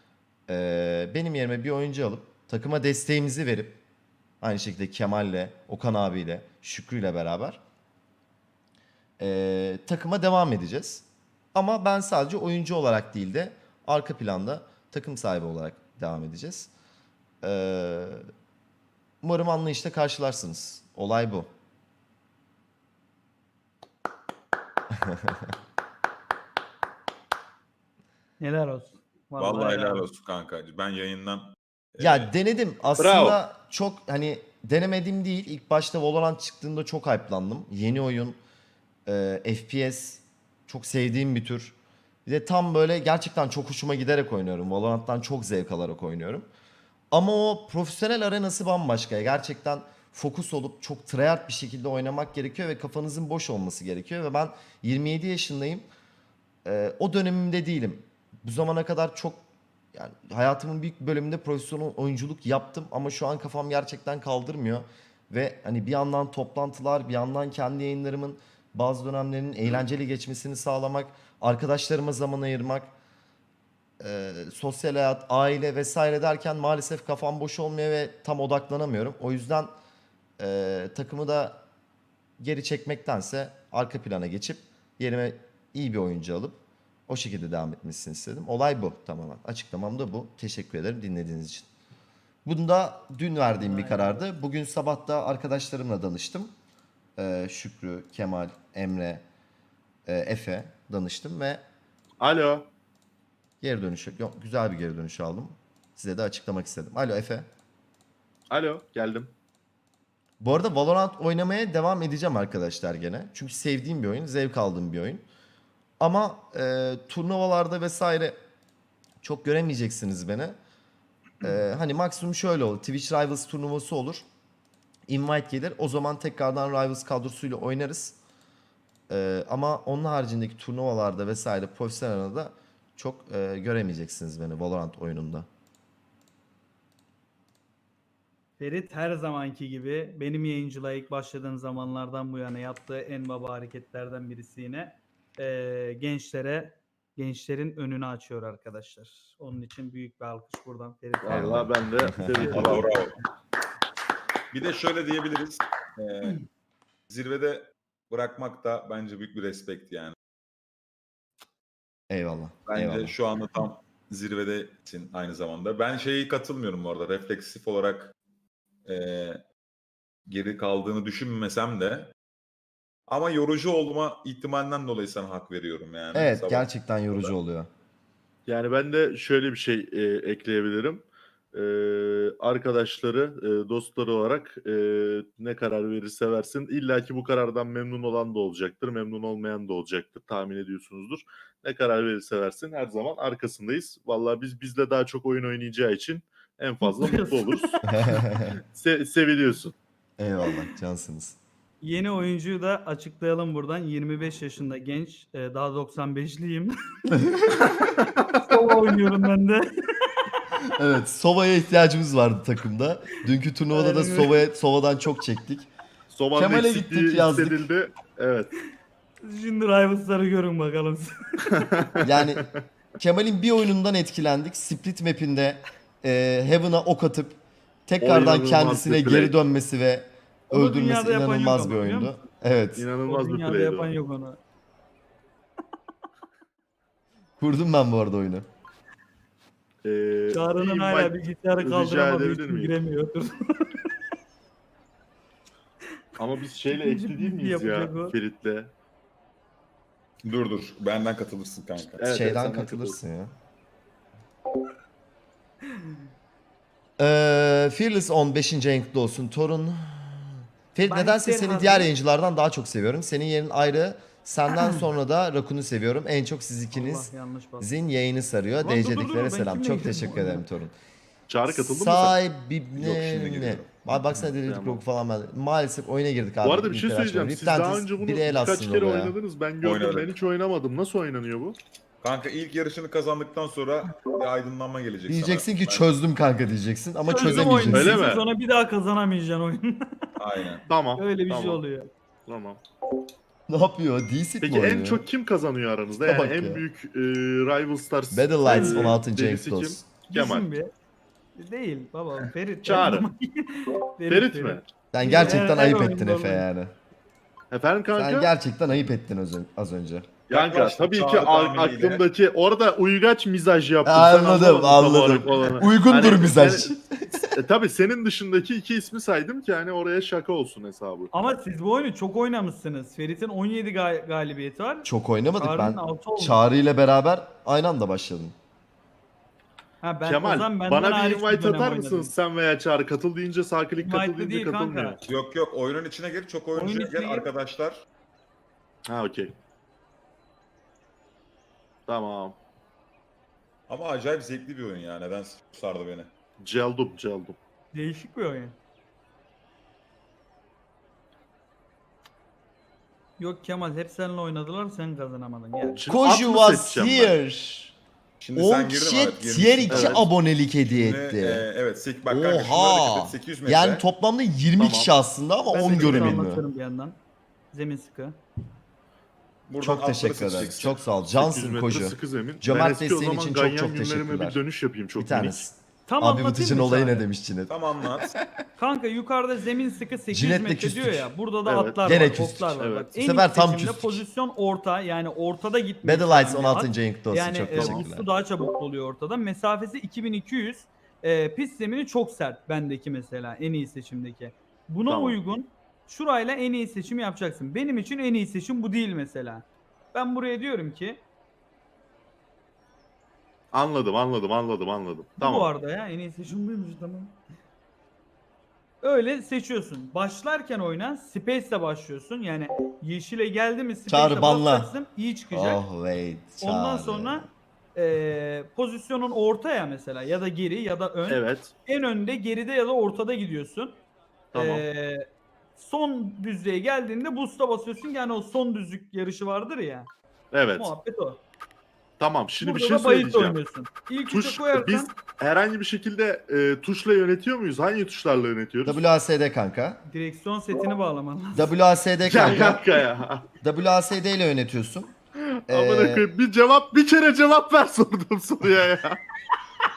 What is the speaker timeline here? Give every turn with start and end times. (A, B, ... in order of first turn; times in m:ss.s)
0:00.5-0:03.8 A
0:04.4-0:07.6 A
0:09.2-0:16.7 A
0:17.4-0:18.2 A
0:19.2-0:21.5 A
0:25.0-0:25.5 A
0:28.4-0:30.1 B
0:29.4-0:32.3 C
0:32.0-0:38.4 A
0:33.0-0:33.4 D
0:39.1-0:41.8 A
0:42.3-0:46.5 A
0:47.1-0:55.8 A
0:56.6-1:12.9 A
1:14.0-1:19.7 A
1:20.4-1:21.6 A
1:22.4-1:31.7 A
1:32.4-1:36.5 A
1:33.6-1:34.2 B
1:37.2-1:39.2 A
1:40.1-1:41.6 A
1:42.2-1:42.7 D
1:43.6-1:47.5 A
1:48.5-1:49.3 D
1:50.4-1:55.2 A
1:56.0-1:58.4 A
1:59.2-2:00.6 A
2:01.4-2:04.2 A
2:05.1-2:08.2 A
2:09.1-2:15.5 A
2:18.6-2:31.7 B
2:31.2-2:33.0 D
2:31.3-2:32.8 A
2:32.2-2:32.9 B
2:32.4-2:33.2 C
2:34.5-2:36.4 C
2:37.1-2:40.2 C
2:42.1-2:43.2 A
2:42.7-2:48.1 C
2:48.9-2:49.4 C
2:50.3-2:52.1 C
2:53.1-2:57.3 C
2:56.1-2:57.7 A
2:58.5-3:17.9 D
3:16.8-3:17.8 B
3:17.8-3:18.6 A
3:18.7-3:19.8 D
3:20.2-3:21.4 A
3:21.8-3:26.8 B
3:27.1-3:27.7 A
3:27.8-3:28.4 D
3:28.5-3:30.2 B
3:30.6-3:35.7 A
3:33.7-3:34.4 B
3:36.1-3:38.5 D
3:36.3-3:37.6 A
3:39.2-3:41.6 B
3:41.5-3:42.5 D
3:42.0-3:42.5 A
3:43.0-3:52.9 A
3:48.0-3:49.4 D
3:50.5-3:52.2 B
3:52.8-3:53.9 D
3:53.1-3:54.4 B
3:57.4-3:58.5 A
3:59.8-4:02.7 D
4:00.3-4:03.9 B
4:06.2-4:08.7 D
4:06.7-4:08.2 B
4:10.2-4:12.0 C
4:12.0-4:13.0 D
4:12.1-4:13.3 A
4:17.0-4:30.8 A
4:20.8-4:21.9 B
4:24.6-4:24.8 B
4:26.7-4:27.7 B
4:28.6-4:30.4 B
4:31.3-4:32.2 D
4:31.5-4:39.2 A
4:32.8-4:33.9 C
4:34.3-4:34.8 D
4:36.4-4:41.6 D
4:39.6-4:40.2 C
4:42.0-4:45.9 C
4:45.1-4:48.0 A
4:47.0-4:50.1 B
4:47.2-4:48.3 D
4:50.2-4:50.7 C
4:50.7-4:51.6 D
4:51.0-4:51.9 B
4:52.3-4:52.6 D
4:53.5-4:55.0 A
4:54.4-5:00.5 D
4:56.0-4:56.6 A
4:58.1-4:59.9 A
4:58.5-4:59.0 B
5:00.1-5:00.7 B
5:01.4-5:06.5 B
5:02.6-5:03.1 D
5:04.1-5:05.5 D
5:04.9-5:06.7 A
5:07.5-5:08.3 D
5:07.9-5:10.1 A
5:10.3-5:16.7 D
5:10.3-5:12.0 C
5:13.8-5:17.3 A
5:17.3-5:21.1 D
5:21.1-5:26.4 B
5:24.8-5:28.4 A
5:29.8-5:32.1 B
5:30.0-5:35.0 D
5:33.8-5:35.0 B
5:35.0-5:37.8 C
5:36.6-5:37.3 B
5:38.9-5:39.4 D
5:41.9-5:42.4 D
5:43.7-5:46.1 C
5:46.4-5:47.4 D
5:47.7-5:48.6 B
5:53.2-5:55.9 B
5:55.8-5:57.2 D
5:55.9-5:57.8 A
5:58.2-6:00.1 C
5:58.4-6:01.5 A
5:59.7-6:00.1 D
6:00.6-6:03.8 C
6:02.1-6:06.4 A
6:04.6-6:04.9 D
6:05.5-6:07.0 B
6:05.6-6:06.2 D
6:07.5-6:08.2 B
6:09.5-6:10.8 C
6:09.6-6:14.4 A
6:10.6-6:15.5 D
6:15.0-6:18.2 A
6:15.9-6:17.1 B
6:17.5-6:18.2 C
6:18.6-6:41.0 B
6:20.1-6:21.1 A
6:21.4-6:22.0 D
6:21.8-6:24.0 A
6:22.6-6:22.9 D
6:25.8-6:28.1 A
6:27.6-6:27.8 D
6:34.9-6:35.2 D
6:43.5-6:45.5 D
6:45.2-6:47.2 B
6:48.8-6:55.6 B
6:53.9-6:54.7 A
6:55.3-6:57.3 A
6:56.4-7:03.8 B
7:01.1-7:01.5 D
7:04.3-7:04.6 D
7:04.3-7:05.0 B
7:05.6-7:09.9 B
7:10.3-7:10.7 D
7:10.6-7:11.2 B
7:12.0-7:13.4 D
7:12.4-7:14.9 B
7:14.1-7:18.8 D
7:18.6-7:19.8 A
7:19.8-7:21.5 B
7:21.3-7:22.8 A
7:22.0-7:23.3 D
7:23.4-7:24.9 A
7:25.2-7:29.0 D
7:25.5-7:26.1 A